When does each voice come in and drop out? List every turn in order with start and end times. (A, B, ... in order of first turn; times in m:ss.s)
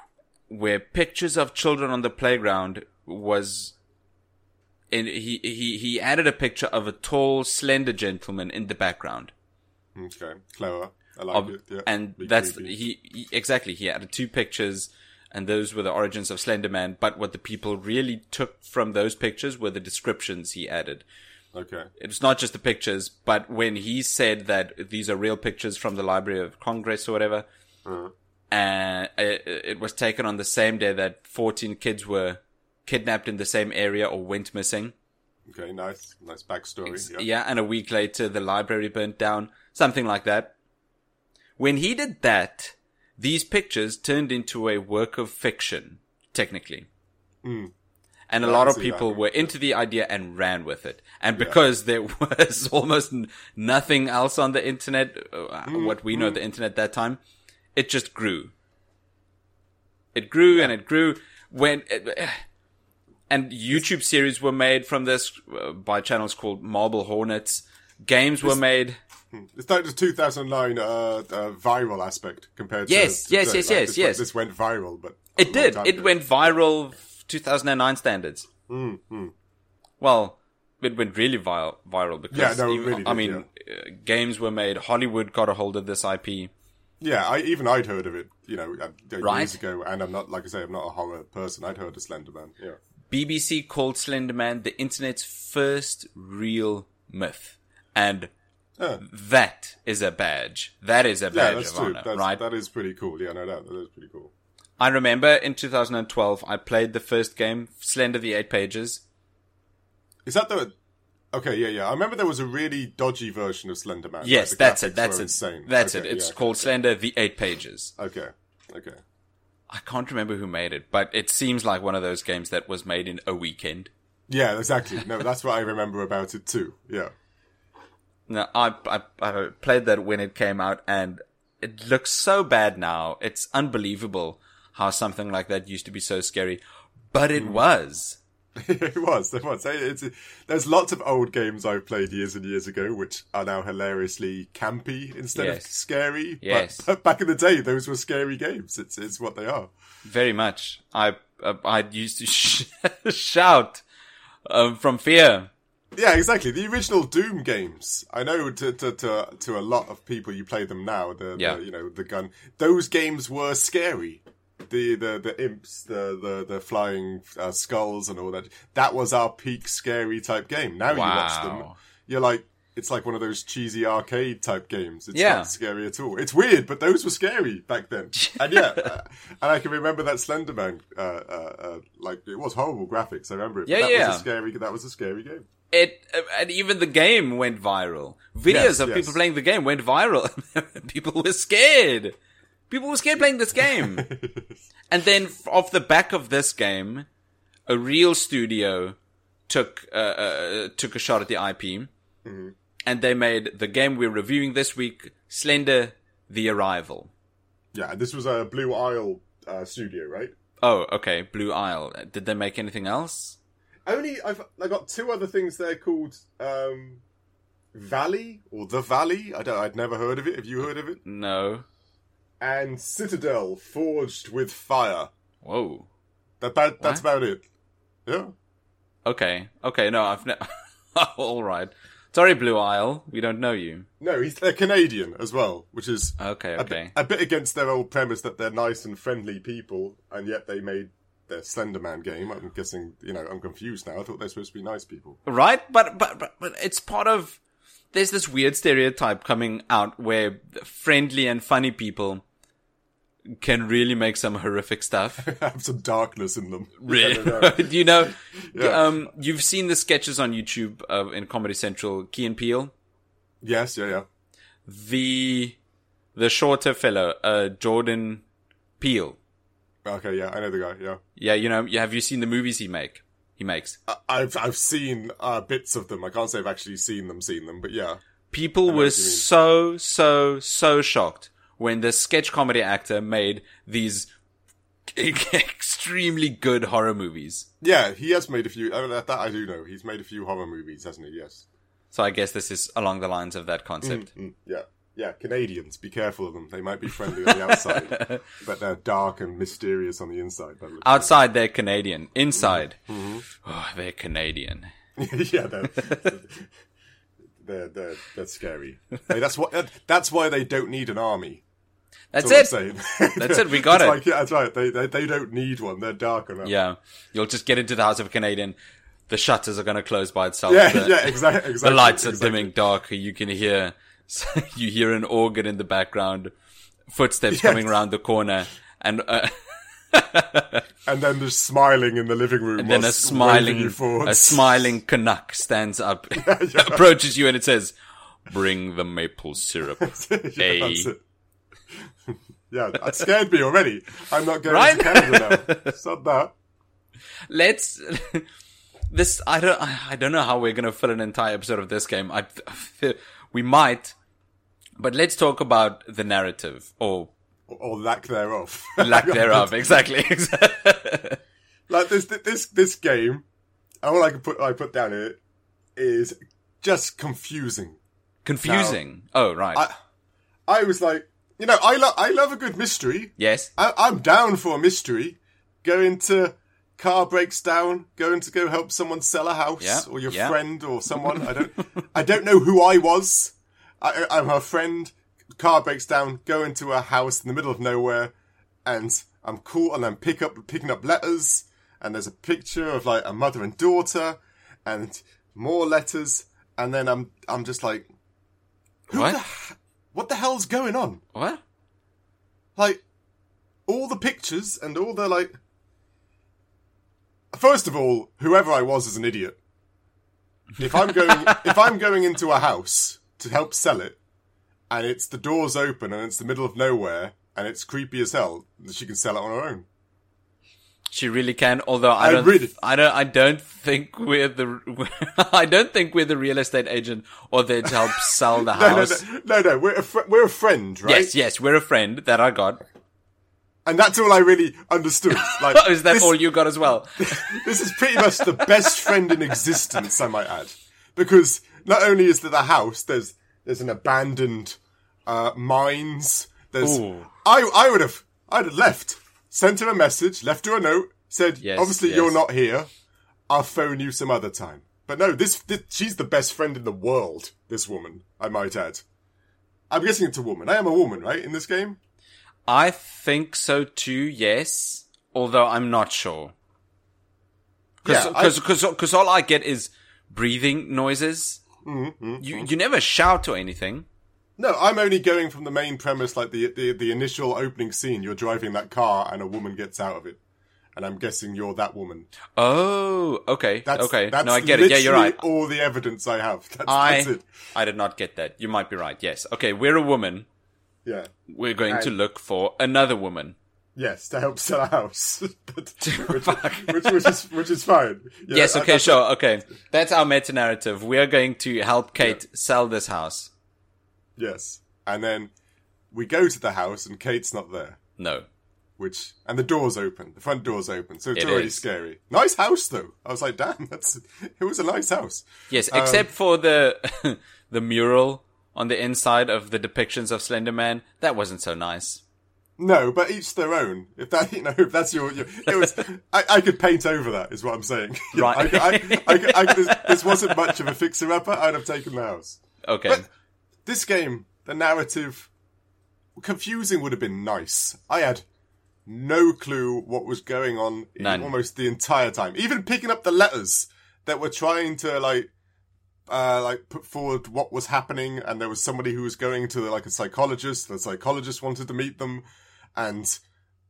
0:00.5-0:03.7 A
0:04.9-0:09.3 A
0:10.0-0:12.8 B
0:11.3-0:21.0 A
0:21.5-0:21.9 B
0:22.0-0:27.4 A
0:27.8-0:28.1 B
0:28.5-0:34.9 A
0:35.5-0:37.2 B
0:36.8-0:40.5 A
0:41.6-0:46.9 A
0:47.4-0:47.7 B
0:48.3-0:57.2 A
0:48.4-0:49.5 B
0:55.7-0:56.4 B
0:57.7-0:58.5 A
1:00.1-1:02.4 A
1:03.3-1:09.0 A
1:09.3-1:16.2 B
1:12.9-1:14.2 A
1:15.4-1:18.5 A
1:18.7-1:19.3 B
1:20.0-1:26.5 A
1:22.3-1:23.4 B
1:27.0-1:32.8 B
1:29.2-1:29.5 A
1:33.1-1:38.3 A
1:38.8-1:39.0 B
1:39.0-1:42.4 A
1:41.3-1:44.3 B
1:44.8-1:49.0 A
1:50.2-1:50.7 B
1:51.3-1:56.7 B
1:54.2-1:57.9 A
1:58.0-1:59.0 B
1:59.7-2:03.9 A
2:04.3-2:07.1 B
2:08.3-2:16.6 A
2:17.1-2:18.2 A
2:18.6-2:29.7 B
2:25.3-2:25.7 A
2:26.4-2:26.8 A
2:30.0-2:33.8 A
2:34.5-2:35.5 A
2:36.0-3:05.4 B
2:50.9-2:51.8 A
2:55.1-2:55.5 A
2:58.2-2:58.9 A
3:03.7-3:04.2 A
3:05.7-3:12.2 A
3:08.5-3:09.2 B
3:12.7-3:14.1 A
3:13.6-3:14.5 B
3:14.9-3:17.1 A
3:17.7-3:19.0 A
3:19.5-3:21.9 A
3:22.2-3:22.5 B
3:22.8-3:27.1 A
3:27.7-3:30.3 B
3:30.6-3:33.4 A
3:33.8-3:37.0 B
3:37.7-3:41.0 B
3:41.0-3:41.6 A
3:42.4-3:45.1 B
3:45.4-3:45.9 A
3:46.4-3:47.4 B
3:46.8-3:47.0 A
3:48.0-3:48.3 B
3:49.0-3:53.9 A
3:54.0-4:05.2 B
3:56.2-3:56.9 A
4:05.2-4:07.4 A
4:07.9-4:12.2 A
4:13.3-4:15.2 A
4:15.2-4:17.9 B
4:16.8-4:22.7 A
4:18.5-4:18.9 B
4:23.4-4:24.0 B
4:24.6-4:25.6 A
4:26.1-4:28.2 A
4:28.8-4:29.2 A
4:29.8-4:31.0 B
4:31.2-4:33.8 A
4:33.9-4:38.0 B
4:38.3-4:44.1 A
4:38.6-4:39.2 B
4:44.9-4:47.5 A
4:47.6-4:51.4 B
4:51.9-4:54.1 A
4:53.8-5:01.1 B
4:57.1-4:58.2 A
5:00.8-5:02.8 A
5:02.4-5:03.2 B
5:03.3-5:04.7 A
5:05.0-5:06.5 B
5:07.4-5:11.4 B
5:12.1-5:12.5 A
5:12.2-5:16.5 B
5:13.2-5:14.0 A
5:16.4-5:18.6 A
5:19.1-5:26.3 A
5:20.5-5:22.5 B
5:26.9-5:30.6 A
5:27.3-5:27.7 B
5:30.8-5:34.7 B
5:32.6-5:37.8 A
5:36.2-5:36.8 B
5:38.3-5:40.9 A
5:39.8-5:41.0 B
5:42.5-5:46.3 B
5:44.4-5:45.7 A
5:47.3-5:48.3 A
5:48.9-5:53.9 A
5:54.8-5:57.1 A
5:57.5-5:59.5 B
5:58.8-6:01.2 A
6:01.7-6:03.2 B
6:03.8-6:05.2 B
6:05.8-6:07.8 B
6:08.2-6:09.6 A
6:08.4-6:08.8 B
6:10.5-6:28.1 B
6:13.2-6:13.5 A
6:19.6-6:20.4 A
6:21.0-6:21.5 A
6:28.6-6:37.9 B
6:38.9-6:41.0 B
6:38.9-6:39.2 A
6:41.1-6:41.4 A
6:42.6-6:42.8 B
6:43.7-6:45.4 B
6:47.3-6:49.4 B
6:50.6-6:54.0 B
6:50.7-6:51.5 A
6:54.7-6:59.6 B
7:00.9-7:09.0 A
7:02.0-7:02.5 B
7:08.0-7:11.1 B
7:10.8-7:12.6 A
7:13.6-7:16.2 B
7:15.1-7:19.4 A
7:17.0-7:32.7 B
7:26.6-7:27.1 A
7:31.4-7:32.2 A
7:33.3-7:38.8 B
7:39.7-7:41.8 B
7:42.5-7:46.3 A
7:47.8-7:48.4 B
7:47.8-7:51.4 A
7:51.6-7:52.5 B
7:52.2-7:53.8 A
7:54.4-8:00.2 B
8:00.8-8:02.1 B
8:02.4-8:05.2 A
8:03.6-8:07.3 B
8:06.6-8:10.2 A
8:10.8-8:11.1 B
8:11.3-8:13.4 A
8:11.7-8:11.9 B
8:13.8-8:19.0 B
8:15.8-8:17.2 A
8:18.3-8:23.3 A
8:24.2-8:25.3 B
8:25.9-8:27.8 B
8:28.0-8:28.2 A
8:28.8-8:36.1 B
8:31.1-8:31.6 A
8:35.5-8:42.0 A
8:42.6-8:53.0 B
8:48.1-8:50.6 A
8:52.6-8:53.0 A
8:53.6-8:55.3 B
8:56.2-8:58.2 B
8:58.8-9:05.3 B
9:01.0-9:01.3 A
9:06.1-9:12.2 B
9:12.8-9:13.2 B